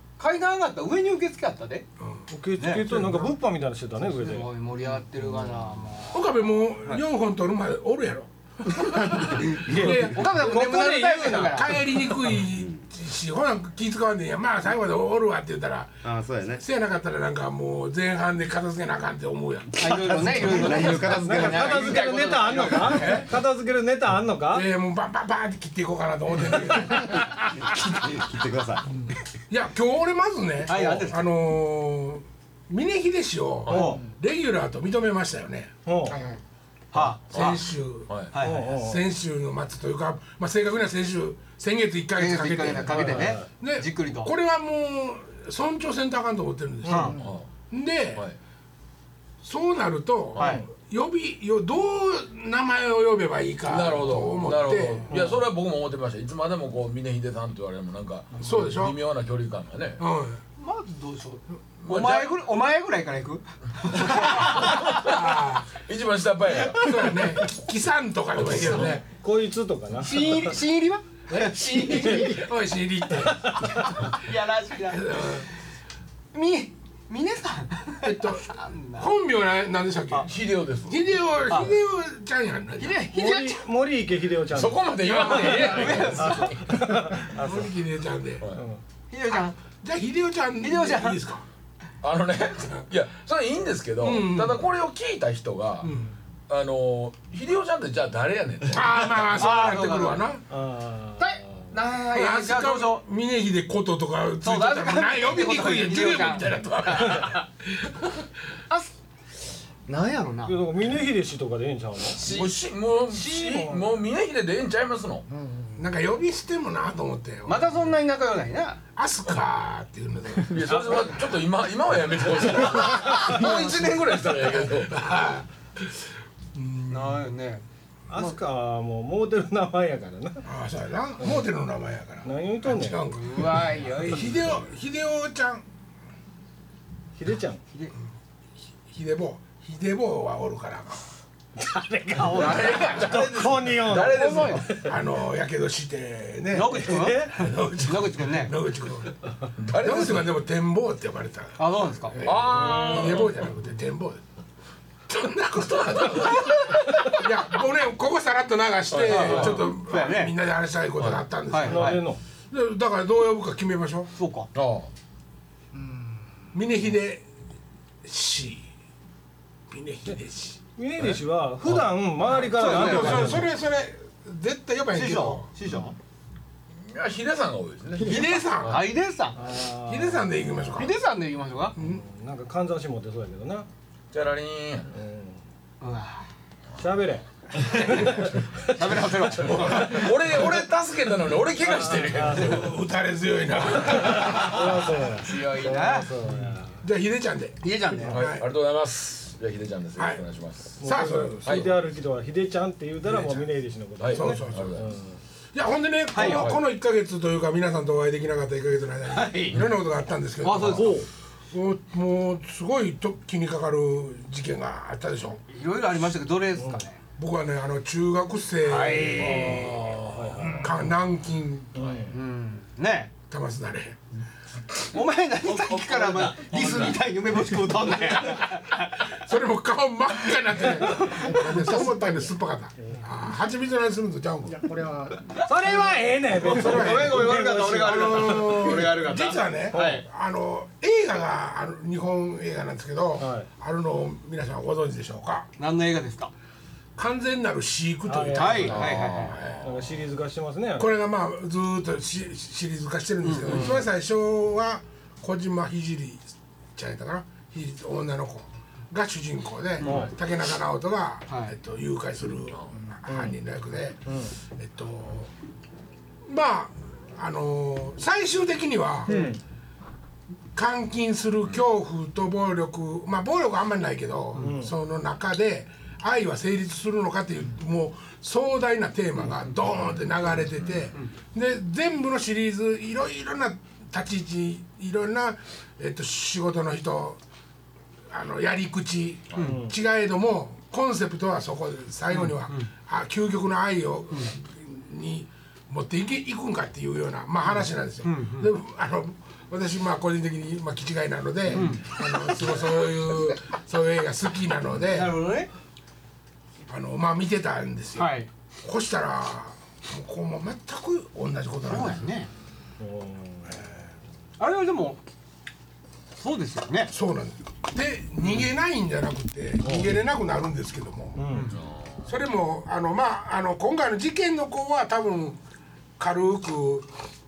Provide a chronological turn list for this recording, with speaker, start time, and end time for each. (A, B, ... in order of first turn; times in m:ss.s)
0:00.2-0:01.9 A
0:02.3-0:04.5 B
0:02.6-0:03.2 A
0:04.2-0:06.3 A
0:06.1-0:10.4 C
0:08.9-0:09.5 D
0:09.5-0:12.2 A
0:09.6-0:11.7 B
0:11.1-0:16.0 C
0:16.0-0:16.6 D
0:16.6-0:19.9 C
0:19.8-0:21.9 D
0:19.8-0:23.2 A
0:20.9-0:24.7 B
0:22.9-0:23.3 C
0:24.5-0:27.3 C
0:27.6-0:28.9 D
0:29.5-0:35.7 C
0:30.7-0:31.3 A
0:33.7-0:34.1 A
0:35.9-0:36.2 B
0:36.9-0:37.6 A
0:37.0-0:38.3 E
0:37.3-0:48.2 C
0:38.3-0:38.7 A
0:38.4-0:39.0 B
0:42.2-0:44.3 A
0:43.2-0:43.5 B
0:46.8-0:47.2 B
0:46.9-0:47.2 A
0:47.2-0:47.5 E
0:49.4-0:55.1 C
0:50.4-0:50.7 A
0:53.7-1:00.0 E
0:58.4-0:59.0 C
1:00.0-1:00.4 C
1:00.6-1:05.1 A
1:01.8-1:02.3 E
1:04.1-1:07.2 E
1:05.0-1:05.7 C
1:06.8-1:09.0 C
1:08.4-1:09.0 E
1:09.1-1:10.5 B
1:10.0-1:12.6 A
1:11.3-1:13.7 C
1:13.3-1:13.7 B
1:13.8-1:15.4 A
1:14.9-1:15.5 C
1:16.3-1:19.1 A
1:18.0-1:23.1 C
1:20.2-1:21.2 E
1:21.5-1:21.8 A
1:22.8-1:23.6 A
1:23.1-1:27.7 B
1:24.5-1:26.9 E
1:25.0-1:26.6 A
1:25.5-1:26.1 C
1:27.3-1:28.4 C
1:28.5-1:28.8 B
1:29.1-1:29.6 A
1:29.8-1:31.5 C
1:30.6-1:31.2 A
1:32.0-1:35.9 E
1:34.0-1:34.6 C
1:35.8-1:36.1 A
1:36.5-1:40.2 E
1:38.7-1:40.4 C
1:39.4-1:40.2 A
1:40.5-1:41.7 B
1:41.2-1:43.0 A
1:42.1-1:48.1 C
1:44.4-1:47.4 A
1:49.9-1:50.6 A
1:50.5-1:52.3 B
1:52.2-1:55.3 E
1:52.2-1:52.5 A
1:53.1-1:53.7 A
1:55.4-1:55.7 A
1:55.8-1:57.7 C
1:57.5-1:58.8 A
1:59.0-2:01.1 C
2:00.3-2:05.0 E
2:00.6-2:01.2 A
2:02.7-2:03.9 A
2:04.3-2:05.9 C
2:06.5-2:07.3 C
2:06.9-2:07.6 A
2:08.1-2:10.4 B
2:10.4-2:15.6 C
2:12.2-2:13.0 B
2:13.1-2:14.6 A
2:17.2-2:17.6 B
2:18.9-2:21.0 C
2:21.6-2:24.9 B
2:22.1-2:24.8 A
2:22.3-2:24.7 E
2:22.3-2:23.2 C
2:24.8-2:29.2 C
2:26.5-2:28.6 A
2:26.8-2:27.4 B
2:29.6-2:30.4 E
2:29.7-2:34.2 C
2:31.6-2:32.2 A
2:32.2-2:33.5 E
2:35.1-2:42.0 C
2:35.6-2:36.8 E
2:36.5-2:37.1 A
2:38.9-2:39.7 E
2:39.0-2:40.4 A
2:41.0-2:41.2 E
2:41.5-2:42.0 A
2:41.6-2:42.2 B
2:42.5-2:44.1 C
2:44.2-2:44.5 A
2:44.5-2:44.9 E
2:46.5-2:47.2 C
2:48.0-2:48.7 C
2:49.7-2:50.6 C
2:50.8-2:53.5 B
2:51.0-2:51.8 E
2:52.3-2:53.5 A
2:52.6-2:55.5 C
2:54.9-2:56.0 A
2:56.8-2:58.8 E
2:58.0-2:58.9 C
2:58.1-2:59.4 A
2:59.4-3:00.7 B
2:59.9-3:00.9 C
3:00.8-3:01.8 A
3:01.8-3:03.7 B
3:04.1-3:04.9 E
3:04.9-3:05.4 B
3:05.8-3:06.3 A
3:06.8-3:08.6 B
3:07.6-3:10.0 A
3:07.8-3:08.2 E
3:09.3-3:12.8 E
3:09.5-3:10.1 C
3:11.9-3:12.6 B
3:12.3-3:14.6 C
3:13.8-3:16.8 B
3:13.9-3:14.3 E
3:14.3-3:16.2 A
3:15.2-3:15.7 E
3:16.8-3:18.4 C
3:17.6-3:18.3 A
3:18.0-3:21.8 E
3:20.0-3:20.2 C
3:20.8-3:21.4 C
3:20.8-3:25.2 B
3:23.1-3:23.5 C
3:24.0-3:25.0 E
3:24.1-3:24.8 C
3:25.5-3:30.9 C
3:26.1-3:26.5 A
3:26.2-3:26.6 E
3:29.1-3:29.6 A
3:30.4-3:31.0 A
3:30.6-3:31.1 B
3:31.5-3:35.4 C
3:35.5-3:37.0 A
3:37.2-3:40.0 C
3:38.6-3:39.8 A
3:39.2-3:40.7 B
3:40.6-3:41.9 C
3:41.8-3:42.2 B
3:42.1-3:43.1 A
3:43.3-3:44.0 C
3:44.9-3:49.1 A
3:45.4-3:47.0 E
3:49.1-3:54.7 C
3:51.2-3:52.0 A
3:55.1-3:58.8 B
3:55.4-4:00.0 A
3:56.4-4:05.5 C
3:59.7-4:00.0 B
4:03.2-4:03.5 B
4:05.6-4:06.3 A
4:07.0-4:09.6 C
4:08.1-4:08.9 B
4:08.3-4:09.4 A
4:08.7-4:09.7 E
4:09.6-4:10.9 B
4:10.8-4:25.3 C
4:13.2-4:13.9 A
4:19.8-4:20.1 A
4:19.8-4:20.1 B
4:21.3-4:21.6 A
4:23.1-4:23.4 B
4:26.3-4:29.1 C
4:29.1-4:29.4 A
4:29.1-4:29.4 B
4:30.5-4:47.2 C
4:34.4-4:34.7 B
4:40.6-4:40.9 E
4:48.1-5:05.2 C
4:49.4-4:49.7 B
4:52.1-4:52.7 A
4:57.5-4:58.5 A
5:01.5-5:02.3 A
5:04.9-5:05.5 A
5:06.6-5:12.1 C
5:08.0-5:08.3 A
5:11.6-5:12.3 A
5:12.8-5:13.5 B
5:14.4-5:15.0 A
5:16.2-5:16.9 A
5:16.9-5:21.2 C
5:19.6-5:19.9 B
5:21.2-5:21.5 B
5:21.3-5:21.6 A
5:21.5-5:22.1 E
5:22.1-5:25.4 C
5:26.0-5:26.9 C